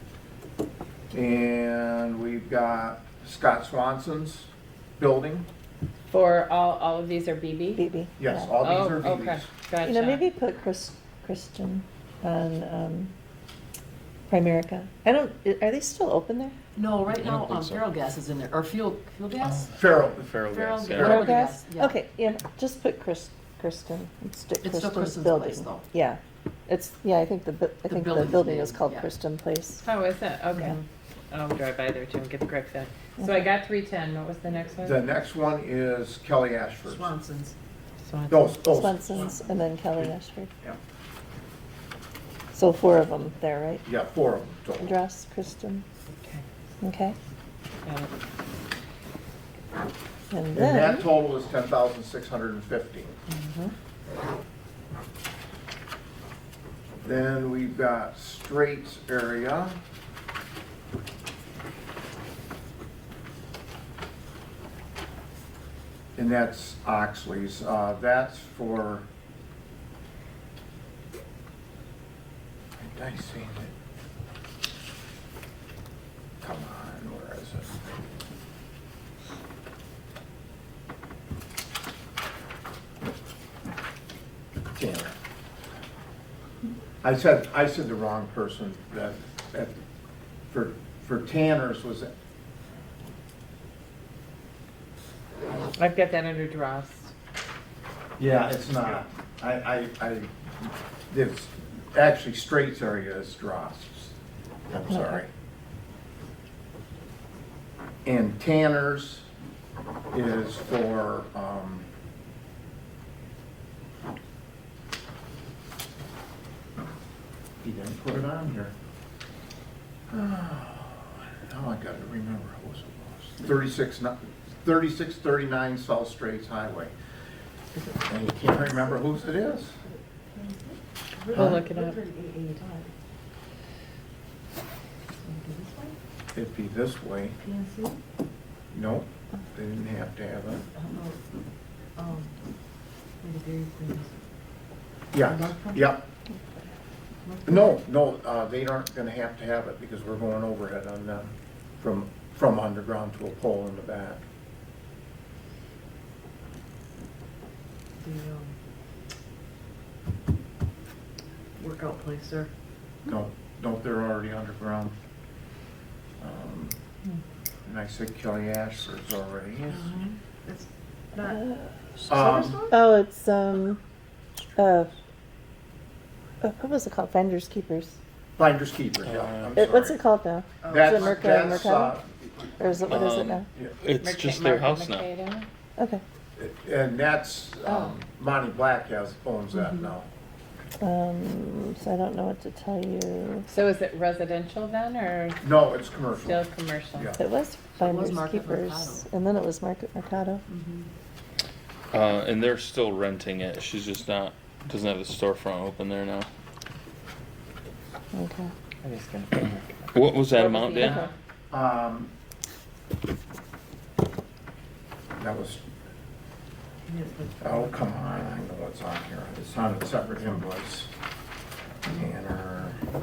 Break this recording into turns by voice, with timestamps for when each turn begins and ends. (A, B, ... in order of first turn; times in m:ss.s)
0:01.1-0:05.5 A
0:06.1-0:07.8 B
0:07.8-0:08.5 C
0:08.2-0:09.5 A
0:08.6-0:10.2 B
0:09.8-0:13.1 C
0:14.3-0:16.6 C
0:16.7-0:22.0 D
0:17.1-0:17.8 E
0:19.6-0:21.3 A
0:20.1-0:21.4 E
0:21.0-0:29.8 C
0:24.6-0:25.9 D
0:27.9-0:29.1 D
0:29.8-0:30.8 B
0:30.5-0:30.8 D
0:31.3-0:35.0 B
0:34.8-0:37.1 A
0:36.8-0:37.5 D
0:38.0-0:38.6 B
0:38.3-0:39.2 A
0:38.7-0:40.5 C
0:42.5-0:43.8 C
0:43.8-0:45.0 A
0:44.8-0:45.8 C
0:46.8-0:47.2 C
0:47.8-0:48.1 B
0:50.3-0:51.1 C
0:50.5-0:53.2 A
0:53.3-0:53.7 B
0:57.0-0:59.8 A
1:06.2-1:09.1 A
1:12.8-1:13.7 A
1:16.4-1:17.8 A
1:24.8-1:25.1 A
1:27.0-1:29.8 A
1:30.5-1:32.1 A
1:35.8-1:37.1 B
1:38.2-1:44.1 A
1:44.7-1:45.3 A
1:44.9-1:45.2 C
1:48.0-1:49.3 A
1:50.1-1:51.9 A
1:57.6-1:58.7 A
2:00.1-2:06.9 A
2:08.0-2:09.8 A
2:10.3-2:12.9 D
2:11.3-2:12.0 B
2:11.3-2:11.6 A
2:15.2-2:15.9 D
2:16.3-2:17.4 A
2:17.4-2:18.0 D
2:18.7-2:20.6 A
2:20.8-2:21.2 D
2:22.0-2:22.3 D
2:23.2-2:24.1 D
2:25.1-2:26.0 A
2:25.2-2:25.9 D
2:27.2-2:27.8 D
2:27.4-2:34.2 A
2:38.0-2:38.5 D
2:41.6-2:42.5 D
2:43.1-2:44.9 A
2:46.2-2:46.8 A
2:47.6-2:49.9 A
2:49.7-2:51.4 D
2:51.3-2:53.8 C
2:52.1-2:52.6 A
2:52.1-2:52.7 D
2:54.6-2:54.9 C
2:56.4-2:58.0 C
2:58.4-3:00.0 A
2:59.0-2:59.6 E
2:59.5-3:02.0 C
3:00.6-3:01.1 D
3:00.7-3:02.1 A
3:02.6-3:03.5 C
3:02.9-3:05.1 E
3:04.0-3:05.5 B
3:05.8-3:06.0 C
3:06.4-3:10.1 A
3:09.6-3:09.8 D
3:10.8-3:13.5 C
3:13.5-3:15.4 B
3:15.4-3:16.4 A
3:16.2-3:17.1 B
3:16.9-3:17.2 A
3:17.2-3:20.4 C
3:17.7-3:19.0 D
3:20.5-3:20.9 D
3:21.9-3:26.3 E
3:28.1-3:28.5 C
3:28.9-3:29.4 B
3:29.9-3:31.0 E
3:30.3-3:31.1 B
3:31.5-3:32.1 A
3:35.2-3:35.6 A
3:36.9-3:37.9 D
3:37.4-3:40.9 A
3:41.8-3:42.8 A